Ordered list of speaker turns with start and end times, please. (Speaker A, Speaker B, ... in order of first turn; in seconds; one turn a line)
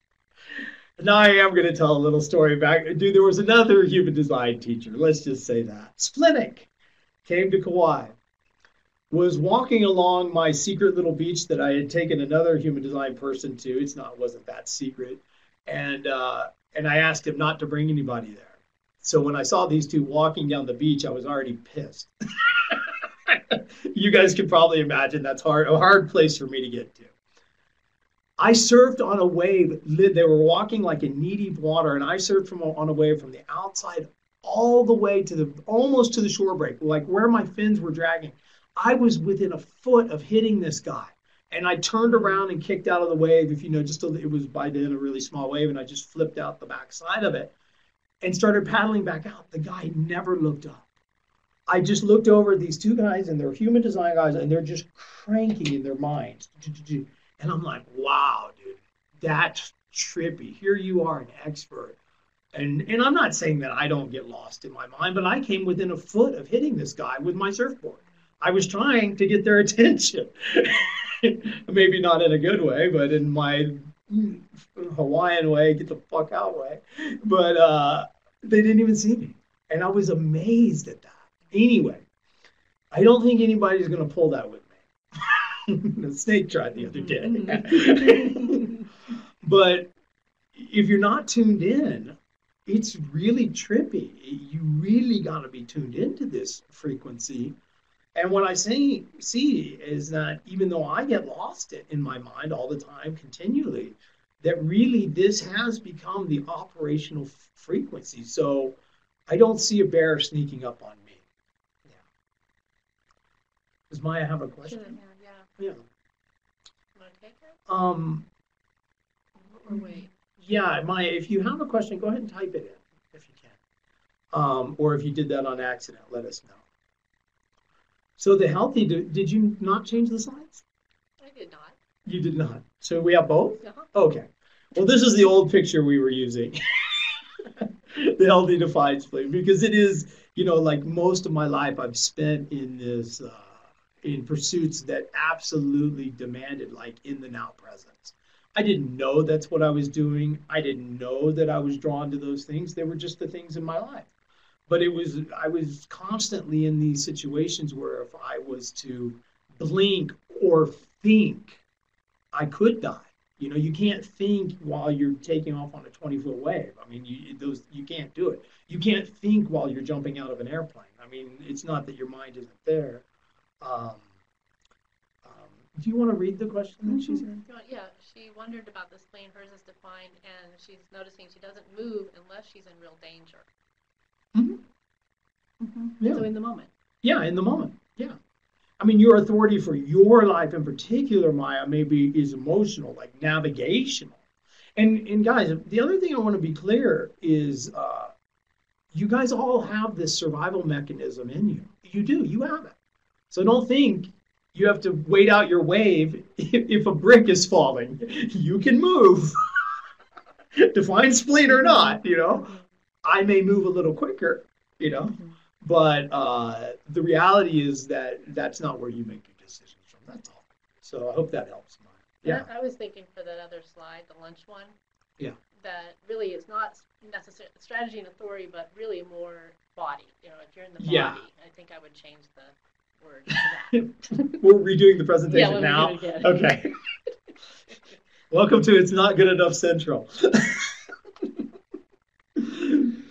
Speaker A: 1.0-6.7
Speaker A: 7.2-8.1
Speaker A: 9.1-27.1
Speaker A: 28.4-47.5
Speaker B: 42.0-42.4
Speaker A: 48.2-50.8
Speaker A: 51.7-62.0
Speaker A: 62.5-82.0
Speaker A: 82.9-88.8
Speaker B: 86.9-88.8
Speaker A: 89.4-89.9
Speaker A: 90.5-92.2
Speaker A: 92.7-97.5
Speaker A: 98.1-108.8
Speaker A: 109.3-111.2
Speaker A: 113.9-115.0
Speaker B: 114.6-115.5
Speaker B: 117.0-117.5
Speaker A: 117.7-118.2
Speaker B: 119.6-120.1
Speaker A: 119.7-123.5
Speaker A: 124.3-126.6
Speaker A: 128.2-130.6
Speaker B: 131.2-131.8
Speaker A: 132.0-137.1
Speaker A: 137.9-154.1
Speaker A: 154.7-161.6
Speaker A: 162.3-173.0
Speaker A: 173.6-174.1
Speaker A: 175.2-177.4
Speaker B: 176.8-183.5
Speaker A: 184.3-184.6
Speaker B: 185.6-186.7
Speaker A: 186.0-186.2
Speaker A: 187.0-188.2
Speaker A: 188.8-194.2
Speaker A: 194.8-198.1
Speaker A: 198.9-202.8
Speaker A: 203.3-209.3
Speaker A: 210.6-212.5
Speaker B: 211.5-212.6
Speaker A: 213.0-222.5
Speaker B: 222.2-224.7
Speaker B: 225.6-234.2
Speaker A: 230.8-231.2
Speaker A: 233.8-236.7
Speaker B: 235.3-236.4
Speaker A: 238.3-240.6
Speaker A: 242.4-242.9